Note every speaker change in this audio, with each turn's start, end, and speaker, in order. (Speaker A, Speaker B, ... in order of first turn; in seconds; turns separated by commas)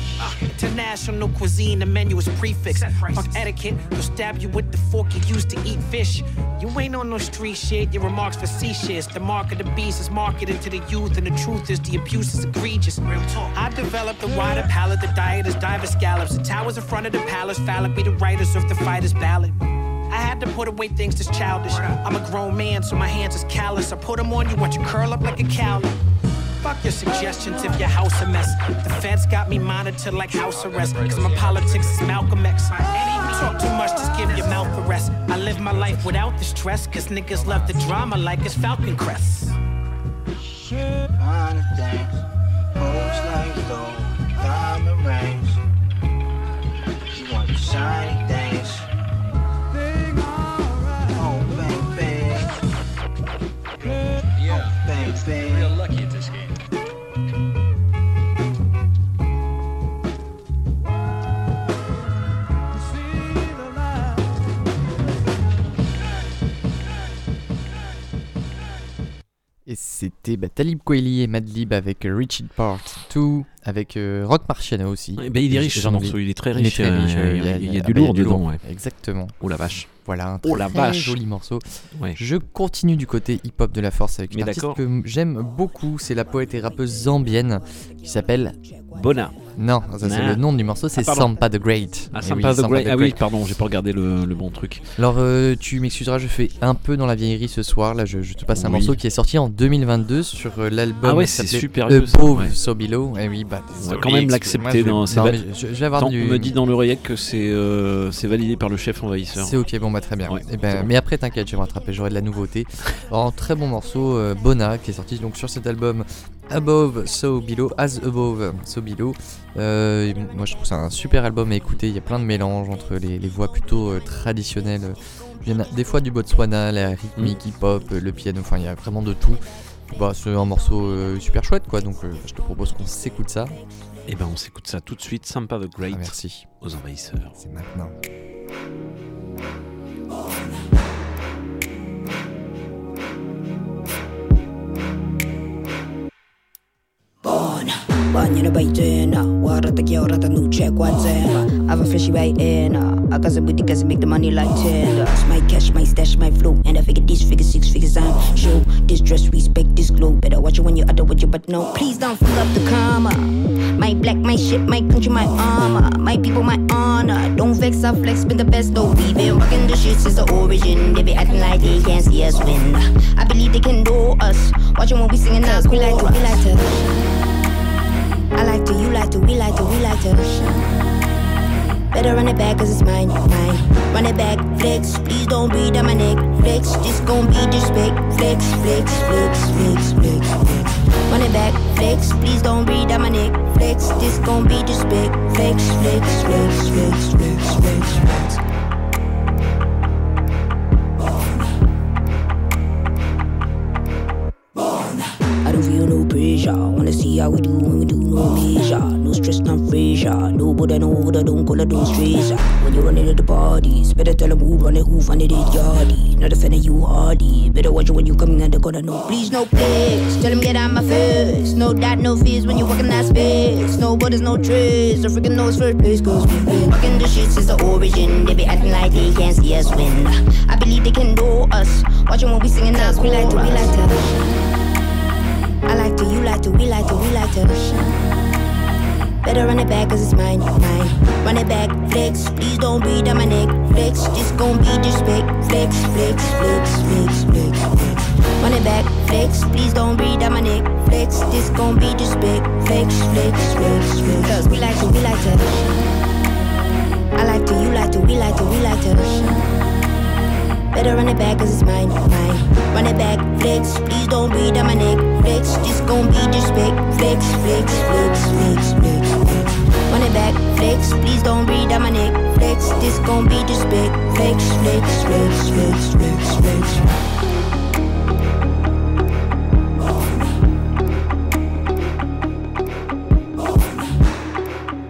Speaker A: 0.2-19.6, Speaker A: 20.1-25.9, Speaker A: 26.6-39.6, Speaker B: 41.2-42.2, Speaker B: 42.8-45.5, Speaker B: 47.1-48.8, Speaker B: 51.1-52.5, Speaker B: 54.4-55.7, Speaker C: 69.7-79.3, Speaker D: 75.2-78.6, Speaker D: 79.4-79.9, Speaker C: 80.0-81.6, Speaker D: 80.4-81.2, Speaker C: 82.2-88.5, Speaker D: 84.3-84.8, Speaker D: 88.9-89.4, Speaker C: 89.6-93.2, Speaker D: 90.0-90.4, Speaker D: 91.0-91.3, Speaker D: 92.1-94.8, Speaker C: 95.0-106.5, Speaker D: 98.5-99.0, Speaker D: 101.0-102.5, Speaker D: 103.8-105.4, Speaker D: 106.0-109.6, Speaker C: 109.4-133.6, Speaker D: 110.2-110.9, Speaker D: 134.1-137.4, Speaker C: 135.9-136.5, Speaker C: 137.3-137.9, Speaker E: 147.2-177.0, Speaker E: 178.3-180.7, Speaker E: 181.9-198.4, Speaker E: 205.4-234.4, Speaker E: 235.7-238.0, Speaker E: 239.2-255.9, Speaker E: 257.2-259.5, Speaker E: 260.7-276.9